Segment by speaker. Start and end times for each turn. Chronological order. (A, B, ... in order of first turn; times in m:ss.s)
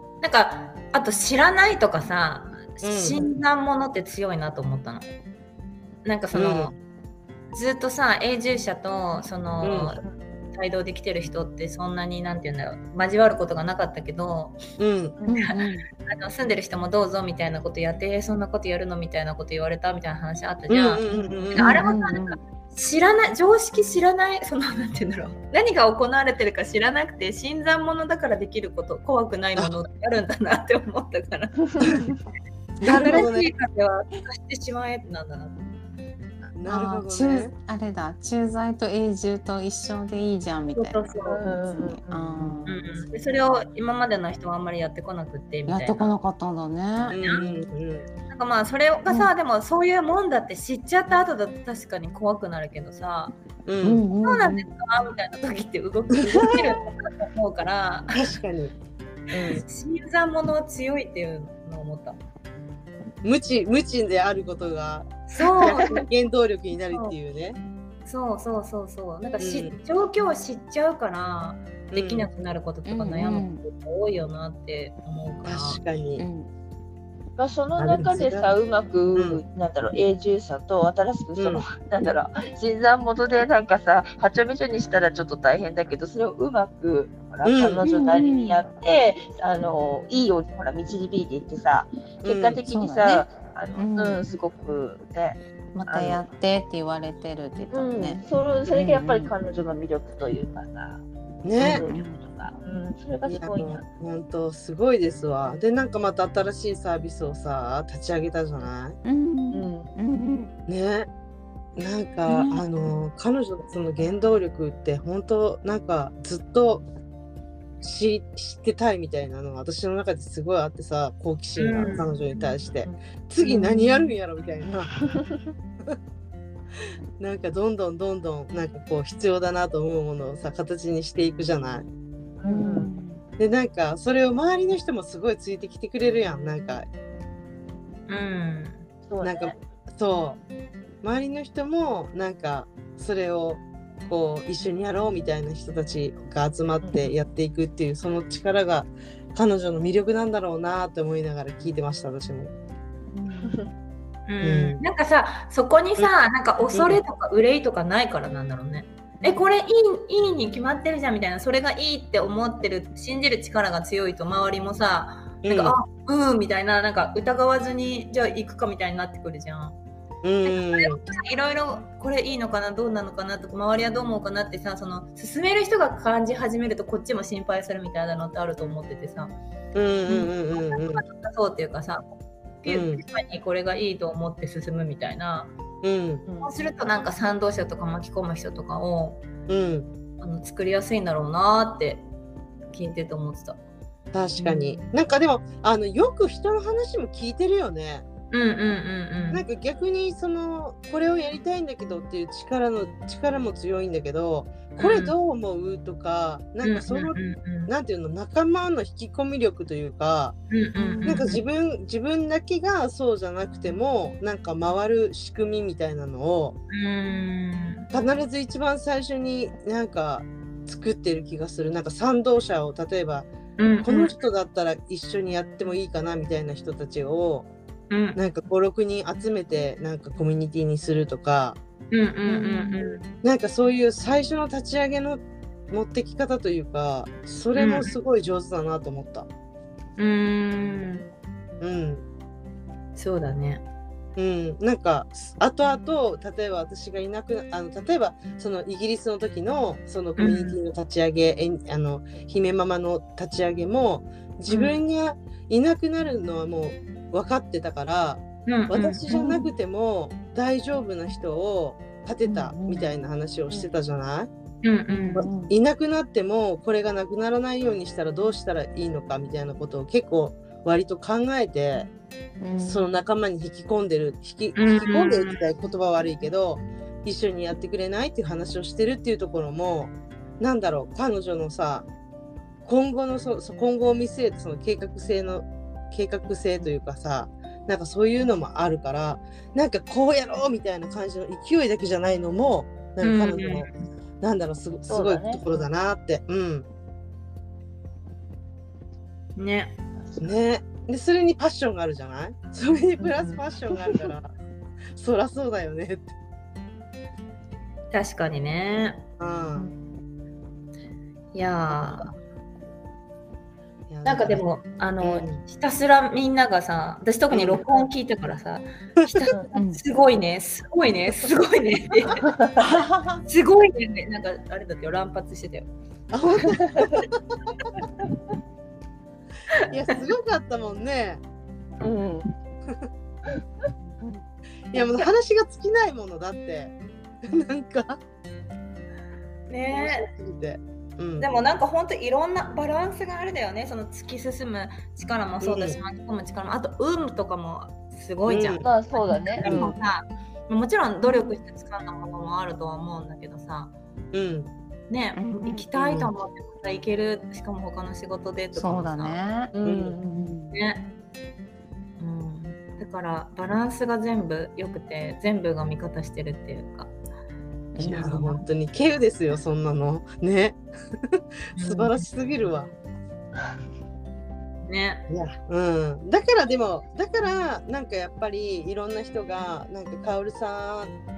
0:00.2-0:05.1 A
0:02.8-0:03.2 B
0:06.0-0:06.8 A
0:06.3-0:06.7 B
0:07.5-0:10.0 A
0:09.6-0:10.0 B
0:10.5-0:14.6 A
0:14.8-0:15.2 B
0:15.2-0:15.5 C
0:15.3-0:15.9 D
0:15.4-0:32.0 A
0:20.7-0:21.8 B
0:21.6-0:22.4 D
0:31.7-0:32.2 C
0:32.8-0:33.5 B
0:32.8-0:35.6 A
0:36.6-0:37.5 B
0:36.6-0:41.1 D
0:40.7-0:41.5 A
0:41.2-0:42.7 C
0:41.7-0:42.8 D
0:42.7-0:46.1 A
0:45.7-0:47.6 D
0:47.1-0:48.1 B
0:47.1-0:47.4 A
0:48.3-0:53.4 A
0:53.7-0:54.0 B
0:53.8-0:54.7 D
0:54.2-0:58.3 A
0:58.1-0:58.7 B
0:59.3-0:59.6 B
0:59.6-1:02.2 A
1:03.2-1:07.6 B
1:05.3-1:06.0 A
1:08.1-1:15.8 A
1:09.4-1:09.8 B
1:11.9-1:12.3 B
1:12.9-1:13.6 D
1:15.4-1:16.2 B
1:16.2-1:16.5 D
1:17.4-1:36.2 C
1:17.8-1:18.5 B
1:19.1-1:19.4 B
1:21.4-1:21.6 B
1:27.4-1:27.8 B
1:27.8-1:28.6 D
1:32.2-1:32.6 B
1:32.7-1:34.2 D
1:35.7-1:39.3 D
1:37.7-1:41.0 C
1:41.4-1:41.9 B
1:41.6-1:43.8 C
1:41.6-1:42.2 D
1:43.3-1:49.0 B
1:49.0-1:50.5 D
1:49.5-1:49.9 C
1:50.7-1:51.1 B
1:51.8-1:56.8 B
1:52.3-1:52.6 D
1:57.8-2:05.1 B
2:01.6-2:02.1 A
2:03.5-2:04.2 D
2:05.0-2:05.4 C
2:07.2-2:11.9 B
2:12.4-2:12.9 C
2:12.5-2:13.2 D
2:13.4-2:16.9 B
2:18.1-2:18.8 A
2:19.1-2:19.6 C
2:19.2-2:20.4 B
2:21.0-2:32.5 B
2:26.8-2:27.1 C
2:33.1-2:33.7 D
2:33.4-2:33.7 C
2:34.3-2:49.8 A
2:34.4-2:34.8 B
2:36.7-2:37.0 B
2:45.4-2:45.8 B
2:50.2-2:51.0 B
2:50.4-2:59.4 A
2:59.8-3:01.0 B
3:00.5-3:02.1 A
3:02.6-3:05.5 A
3:02.7-3:03.0 B
3:05.8-3:06.2 B
3:06.2-3:06.5 C
3:06.4-3:09.2 A
3:09.5-3:09.9 B
3:10.2-3:12.1 A
3:12.7-3:13.6 A
3:14.1-3:18.0 B
3:14.4-3:14.9 A
3:18.3-3:19.4 A
3:19.3-3:30.4 B
3:24.8-3:25.2 A
3:26.6-3:27.7 A
3:30.5-3:31.4 A
3:30.8-3:31.4 D
3:31.0-3:36.6 B
3:36.7-3:37.9 A
3:37.9-3:43.3 B
3:43.6-3:44.2 A
3:43.8-3:47.5 B
3:47.9-3:48.2 A
3:48.2-3:51.6 B
3:51.9-3:53.0 A
3:52.3-3:52.8 D
3:53.2-3:59.3 B
3:57.6-3:57.9 A
4:00.0-4:01.1 A
4:01.6-4:02.0 B
4:03.0-4:03.6 A
4:04.2-4:24.3 B
4:10.2-4:10.6 A
4:14.5-4:14.8 A
4:18.5-4:19.0 A
4:19.1-4:19.5 D
4:22.3-4:22.9 D
4:24.6-4:25.3 A
4:24.9-4:25.6 D
4:25.2-4:31.9 B
4:32.4-4:32.8 D
4:32.6-4:41.9 B
4:34.6-4:35.5 A
4:42.6-4:53.7 B
4:53.0-4:53.7 A
4:54.2-4:56.7 B
4:54.9-4:55.6 C
4:59.4-4:59.8 A
5:00.2-5:04.3 B
5:03.0-5:04.1 C
5:05.0-5:06.1 B
5:07.9-5:09.0 A
5:09.2-5:09.7 B
5:11.3-5:12.2 A
5:13.9-5:14.4 B
5:14.0-5:22.3 A
5:15.0-5:15.4 B
5:17.3-5:17.6 B
5:19.0-5:19.2 B
5:19.6-5:19.8 D
5:22.2-5:22.6 C
5:23.3-5:25.7 A
5:26.1-5:27.1 B
5:26.6-5:27.0 C
5:29.7-5:31.2 B
5:31.8-5:32.3 C
5:34.7-5:38.0 B
5:34.7-5:35.1 C
5:39.5-5:40.1 A
5:39.7-5:41.3 B
5:41.2-5:53.7 A
5:45.4-5:45.8 B
5:48.3-5:48.7 B
5:48.6-5:49.8 C
5:49.4-5:49.7 B
5:51.0-5:51.3 D
5:54.1-5:54.5 B
5:54.9-5:59.2 A
5:55.2-5:55.7 D
5:55.8-5:56.1 B
5:58.5-6:00.6 D
5:59.5-6:00.2 C
5:59.6-6:00.0 B
6:00.5-6:00.9 A
6:02.0-6:06.9 A
6:07.8-6:08.4 D
6:07.8-6:08.4 A
6:07.8-6:12.7 B
6:11.6-6:12.1 A
6:14.6-6:15.0 A
6:15.1-6:20.9 B